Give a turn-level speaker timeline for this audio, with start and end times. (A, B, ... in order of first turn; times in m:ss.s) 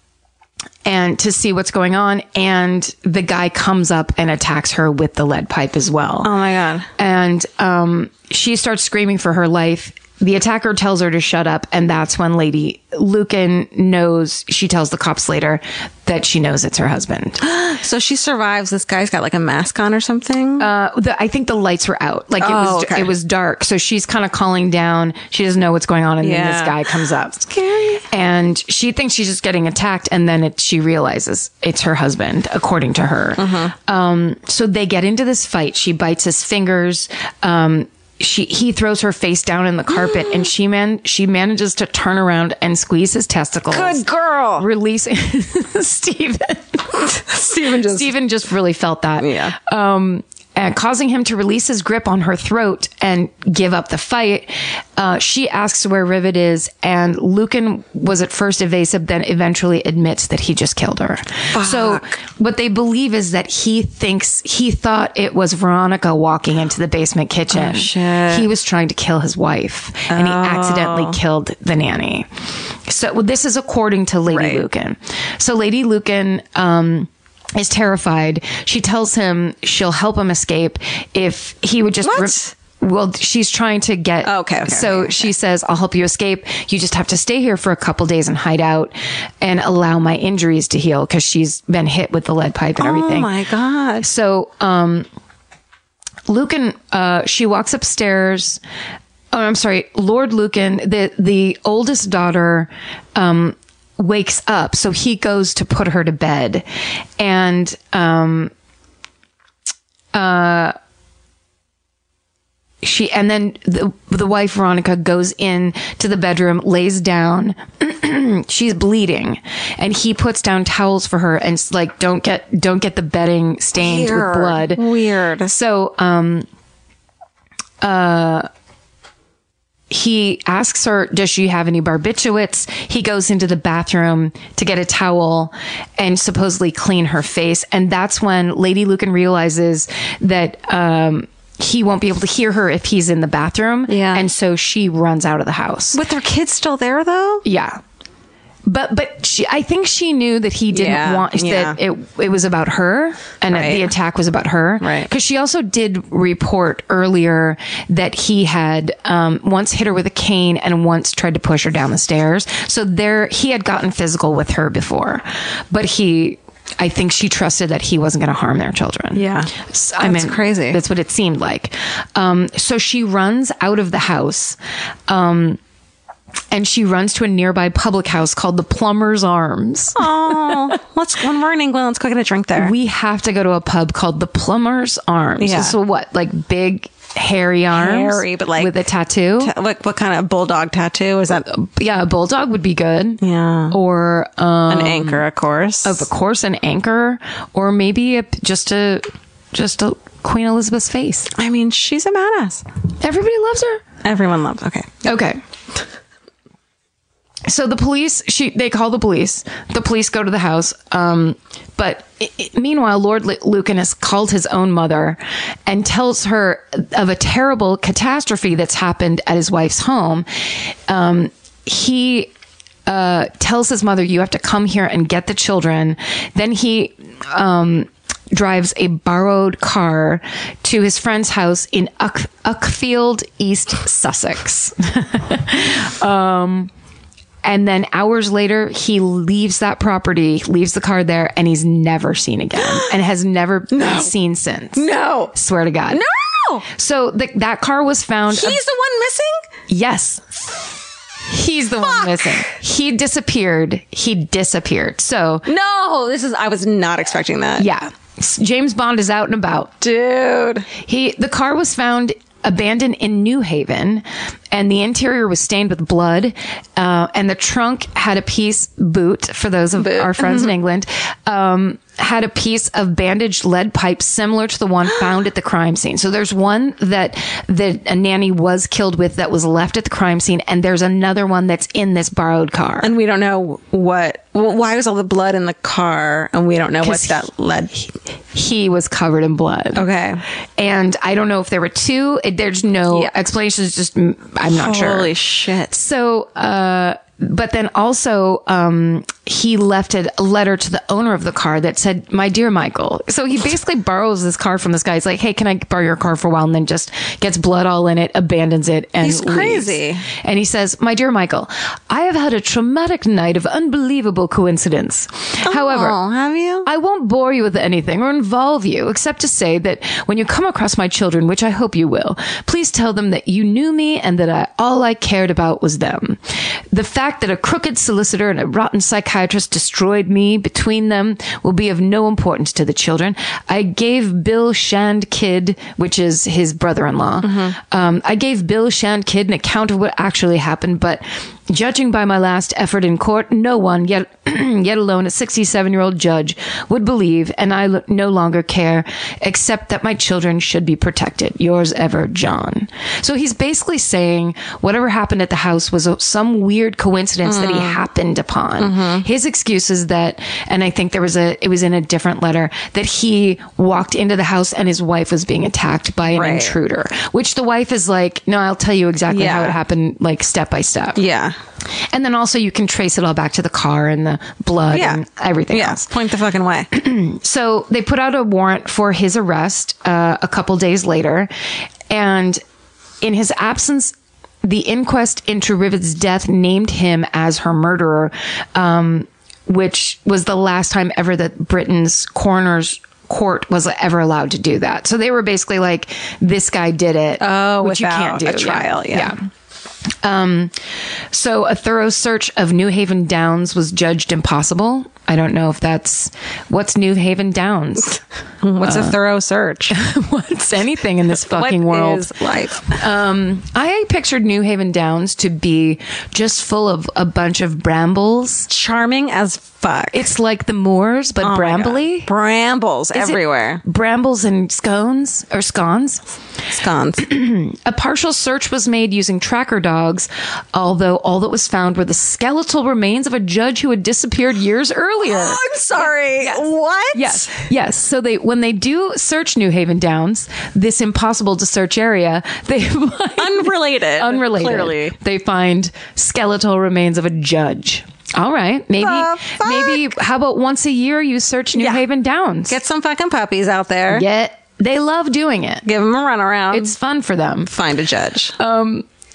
0:00.8-0:06.3 A
0:06.2-0:06.9 B
0:07.0-0:17.4 A
0:17.4-0:20.7 B
0:20.6-0:27.5 A
0:22.4-0:23.1 B
0:26.2-0:28.0 B
0:28.1-0:44.0 A
0:33.4-0:33.7 B
0:40.0-0:40.5 B
0:43.7-0:44.6 B
0:44.6-1:12.3 A
0:47.0-0:48.1 B
0:49.2-0:49.5 B
1:01.5-1:02.1 B
1:07.5-1:08.4 B
1:10.1-1:11.2 B
1:12.9-1:33.3 A
1:14.3-1:14.6 B
1:22.0-1:22.5 B
1:24.2-1:25.2 B
1:32.8-1:34.1 B
1:34.0-1:35.0 A
1:36.3-1:38.6 A
1:39.3-1:46.6 A
1:47.2-1:48.5 A
1:50.1-1:50.7 A
1:52.8-2:04.8 A
2:03.8-2:05.5 B
2:05.5-2:06.4 A
2:07.8-2:08.5 A
2:09.9-2:26.0 A
2:23.9-2:24.2 B
2:25.9-2:27.4 B
2:27.4-2:27.8 A
2:28.6-2:54.6 A
2:30.7-2:31.8 B
2:33.5-2:33.8 B
2:34.8-2:35.1 B
2:49.2-2:50.8 B
2:55.1-2:55.6 A
2:56.5-3:00.1 A
3:00.0-3:02.7 B
3:02.6-3:09.5 A
3:05.4-3:05.8 B
3:07.7-3:08.7 B
3:09.4-3:11.4 B
3:11.5-3:15.2 A
3:13.2-3:13.8 B
3:14.7-3:16.0 B
3:15.8-3:21.3 A
3:21.3-3:22.6 B
3:23.0-3:23.8 A
3:24.0-3:25.0 B
3:25.0-3:25.4 A
3:27.4-3:40.2 A
3:40.9-3:42.3 A
3:42.9-3:56.7 A
3:57.4-4:06.0 A
4:02.6-4:02.9 B
4:03.7-4:04.1 B
4:04.8-4:05.3 B
4:05.9-4:06.6 B
4:06.7-4:08.6 A
4:08.3-4:09.4 B
4:09.7-4:10.4 A
4:11.3-4:15.4 A
4:11.8-4:12.4 B
4:15.4-4:17.7 B
4:17.6-4:19.7 A
4:19.8-4:20.7 B
4:20.7-4:42.9 A
4:29.8-4:30.5 B
4:42.8-4:47.7 B
4:46.8-4:47.2 A
4:48.3-4:49.8 A
4:49.7-4:50.2 B
4:50.6-4:55.1 A
4:54.5-4:55.7 B
4:55.7-5:16.0 A
5:09.0-5:10.0 B
5:15.4-5:16.7 B
5:16.6-5:26.2 A
5:26.7-6:11.0 A
5:37.2-5:37.5 B
5:57.2-5:57.8 B
5:58.6-5:59.0 B
6:06.1-6:06.6 B
6:09.1-6:09.6 B
6:11.0-6:11.4 B
6:11.9-6:15.9 A
6:14.7-6:16.7 B
6:16.7-6:21.3 A
6:21.9-6:22.4 A
6:23.0-6:39.2 A
6:37.2-6:39.1 B
6:40.0-6:40.5 A
6:41.1-6:48.0 A
6:48.4-6:49.7 B
6:48.6-6:48.9 A
6:49.7-6:52.1 A
6:51.3-6:52.8 B
6:52.7-6:58.5 A
6:58.5-7:00.1 B
6:59.9-7:02.1 A
7:01.2-7:03.6 B
7:02.9-7:06.0 A
7:06.5-7:07.0 B
7:07.0-7:32.6 A
7:15.0-7:17.4 B
7:23.2-7:24.9 B
7:28.8-7:29.9 B
7:31.6-7:31.8 B
7:32.5-7:34.0 B
7:33.9-7:35.6 A
7:35.6-7:36.7 B
7:36.5-7:37.5 A
7:37.5-7:38.3 B
7:38.4-7:38.8 A